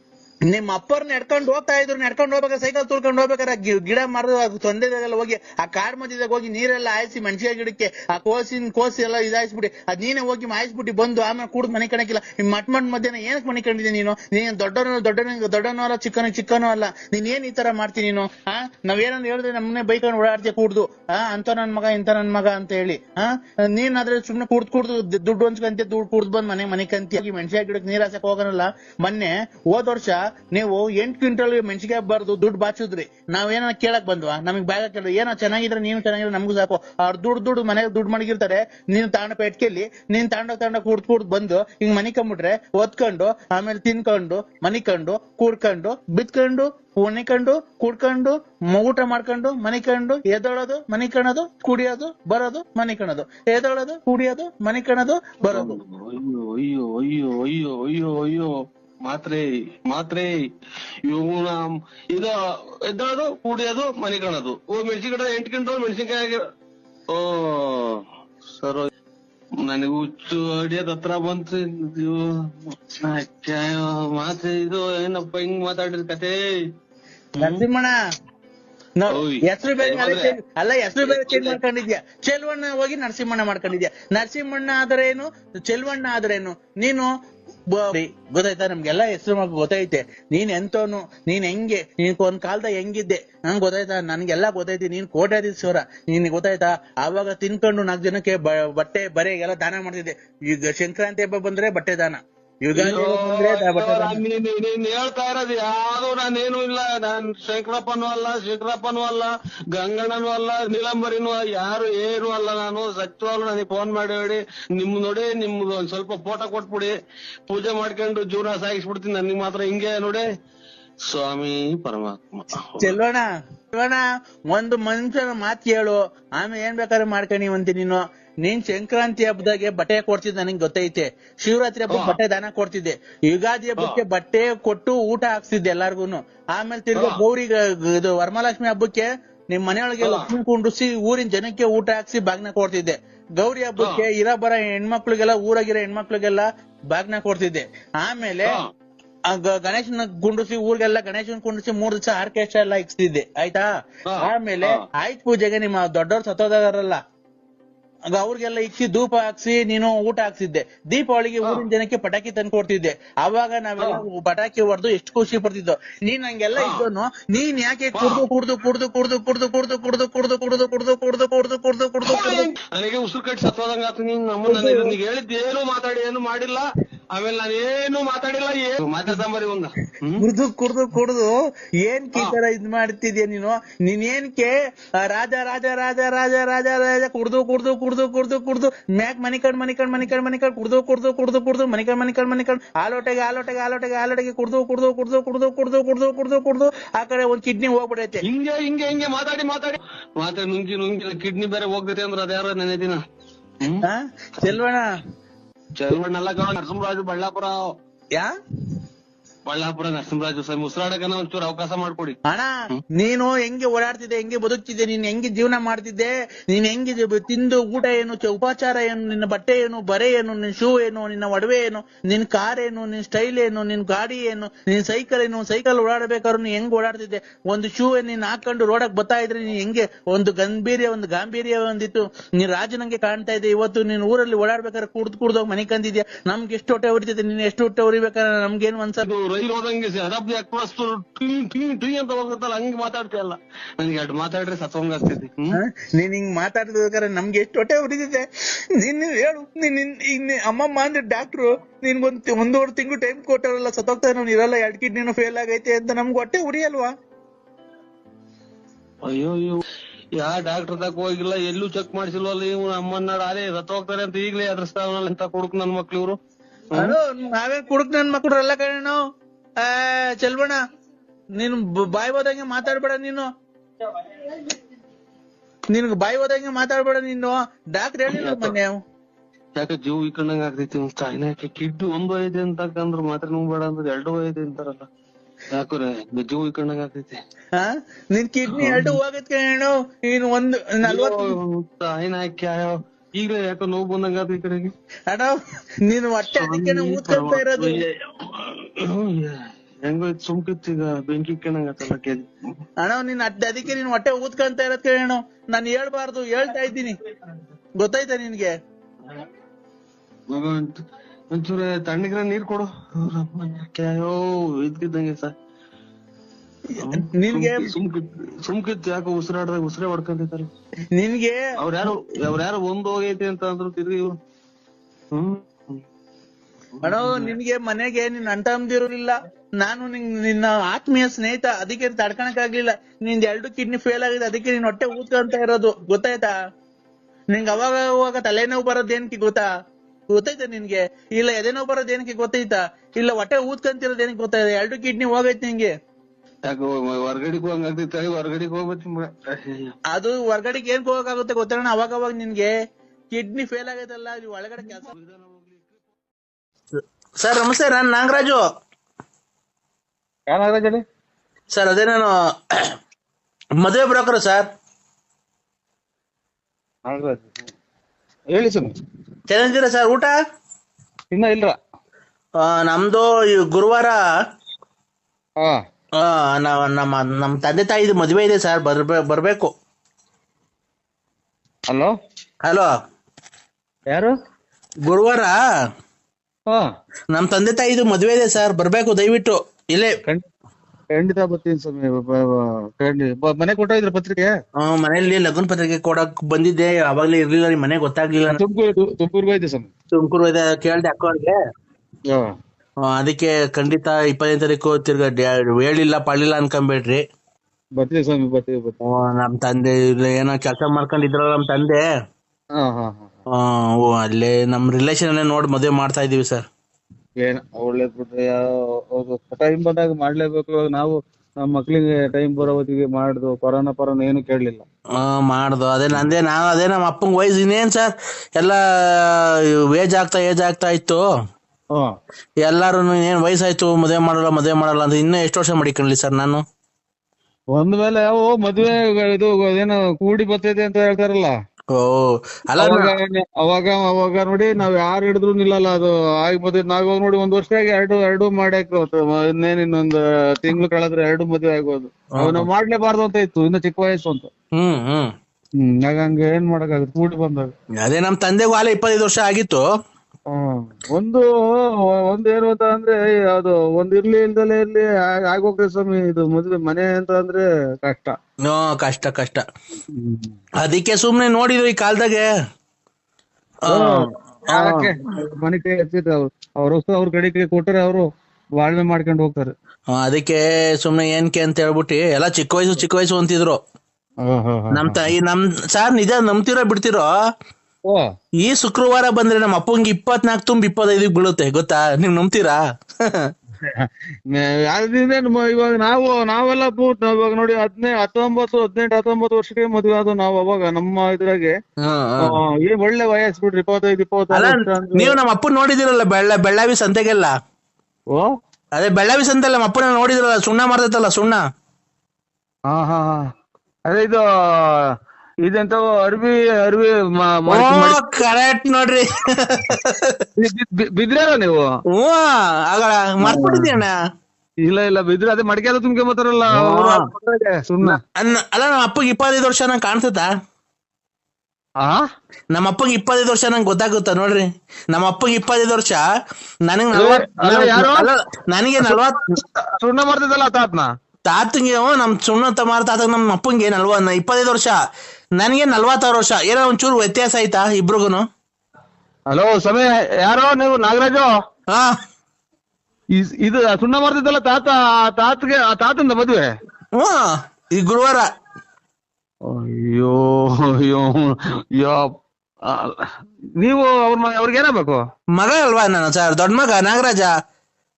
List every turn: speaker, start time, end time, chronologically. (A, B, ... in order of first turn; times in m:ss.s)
0:00.5-0:55.8 A
0:55.5-0:58.5 B
0:59.0-1:00.3 B
1:01.0-1:06.4 B
1:07.1-1:08.0 B
1:08.6-1:08.9 B
1:09.6-1:16.4 B
1:17.4-1:17.9 A
1:19.0-1:27.1 A
1:19.1-1:20.3 B
1:21.0-1:21.6 B
1:27.8-1:44.2 A
1:42.7-1:56.9 B
1:57.5-2:00.2 B
2:01.0-2:03.0 B
2:02.8-2:04.0 A
2:04.5-2:28.6 A
2:11.9-2:12.2 B
2:17.0-2:17.2 B
2:20.0-2:20.3 B
2:23.8-2:24.0 B
2:29.3-2:33.6 A
2:34.1-2:34.8 B
2:34.2-2:37.0 A
2:38.1-2:52.5 A
2:46.6-2:46.8 B
2:47.9-2:48.2 B
2:52.0-3:00.3 B
2:54.5-2:54.9 A
3:00.2-3:01.3 A
3:01.8-3:18.2 A
3:18.2-3:23.0 B
3:23.8-3:24.8 A
3:25.8-3:27.7 B
3:29.5-3:32.2 B
3:32.3-3:59.0 A
3:59.0-4:05.6 B
4:05.7-4:08.3 A
4:08.8-4:16.9 A
4:19.0-4:19.6 B
4:20.2-4:26.2 B
4:26.8-4:29.0 A
4:29.6-4:30.6 A
4:31.4-4:33.3 A
4:35.7-4:38.8 A
4:38.1-4:38.5 B
4:39.6-4:44.9 B
4:45.5-4:47.2 B
4:47.6-4:51.2 A
4:48.5-4:48.9 B
4:50.8-4:54.7 B
4:55.9-4:57.8 A
4:56.4-5:02.3 B
5:02.8-5:06.9 A
5:07.8-5:08.5 A
5:10.3-5:10.8 B
5:11.3-5:15.3 B
5:16.8-5:20.5 B
5:16.9-5:17.7 A
5:21.0-5:21.4 A
5:21.6-5:24.1 B
5:25.1-5:25.8 B
5:26.8-5:27.3 B
5:26.8-5:36.3 A
5:37.3-5:39.5 A
5:40.1-5:45.7 A
5:46.5-5:49.7 B
5:49.9-5:52.5 A
5:53.1-5:54.9 A
5:54.9-5:55.8 B
5:56.8-5:58.4 A
6:00.3-6:00.8 C
6:01.5-6:02.1 A
6:03.6-6:04.5 A
6:06.8-6:07.4 C
6:08.3-6:08.7 C
6:09.3-6:10.1 A
6:11.1-6:11.6 C
6:12.4-6:14.0 A
6:16.0-6:19.5 A
6:21.7-6:21.9 C
6:23.9-6:24.2 C
6:24.9-6:25.4 A
6:27.1-6:29.9 A
6:30.9-6:34.4 C
6:34.6-6:38.4 A
6:38.2-6:39.7 C
6:39.9-6:41.4 A
6:42.1-6:42.4 C
6:42.9-6:47.0 A
6:47.8-6:48.7 C
6:48.9-6:51.8 A
6:52.6-6:53.1 C
6:53.4-6:56.5 A
6:57.2-7:04.6 C
7:05.0-7:11.0 A
7:12.4-7:16.4 A
7:17.5-7:21.3 C
7:21.8-7:22.8 A
7:22.6-7:34.3 C
7:34.6-7:35.1 A
7:35.6-7:37.5 C
7:37.8-7:39.6 A
7:40.3-7:48.2 C
7:48.4-7:49.4 A
7:49.9-7:50.3 C
7:50.6-7:52.3 A
7:53.7-7:59.5 C
7:59.9-8:03.6 A
8:04.2-8:05.1 C
8:04.7-8:07.1 A
8:08.4-8:12.6 A
8:13.6-8:21.6 C
8:21.8-8:22.2 A
8:22.2-8:25.2 C
8:24.3-8:27.3 A
8:28.1-8:28.4 C
8:28.8-8:31.4 A
8:32.7-8:33.3 C
8:33.9-8:34.8 C
8:35.4-8:38.0 C
8:37.6-8:40.1 A
8:40.4-8:41.7 C
8:41.9-8:43.9 A
8:43.2-8:43.8 C
8:44.6-8:48.0 C
8:48.2-8:50.3 A
8:52.5-8:56.0 A
8:56.7-8:59.2 A
8:56.9-8:58.1 C
8:58.8-9:00.9 C
9:01.3-9:04.7 A
9:05.4-9:08.2 A
9:09.3-9:11.3 C
9:13.2-9:16.6 C
9:17.0-9:18.3 A
9:19.4-9:22.1 C
9:22.6-9:25.0 C
9:25.4-9:27.3 A